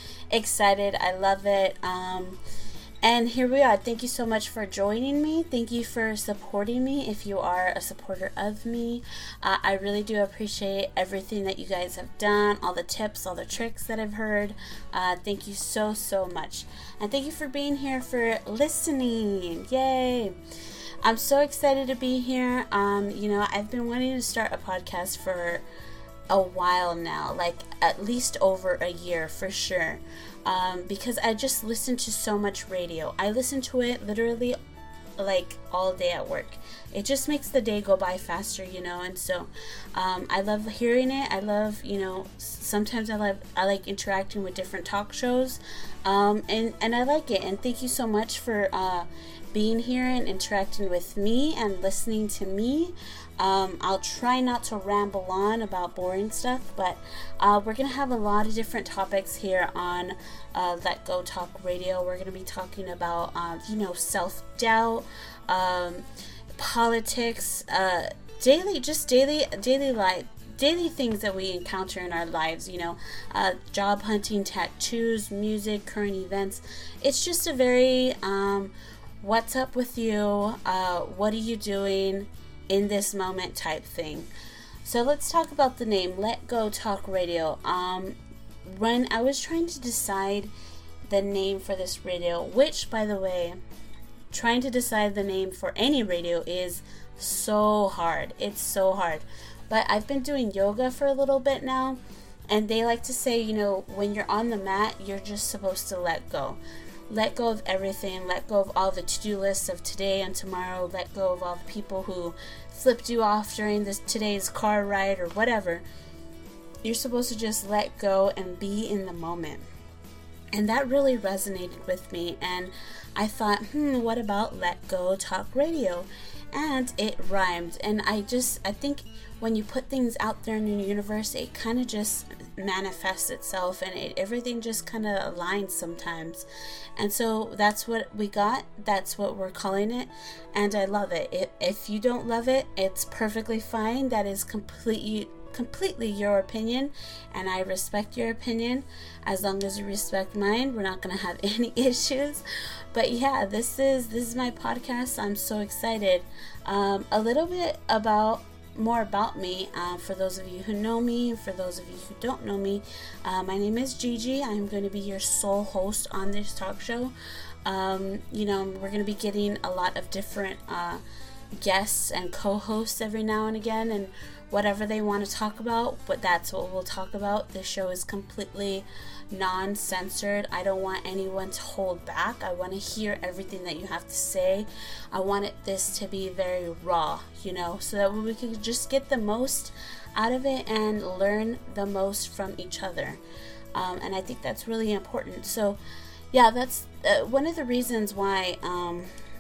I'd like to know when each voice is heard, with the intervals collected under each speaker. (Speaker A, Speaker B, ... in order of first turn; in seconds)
Speaker A: 0.3-2.4, 3.0-20.4, 21.0-25.6, 26.3-34.6, 35.2-84.3, 84.8-90.5, 91.1-93.6, 94.3-115.8, 116.8-119.7, 120.5-171.0, 171.6-193.2, 193.8-195.8, 196.3-199.1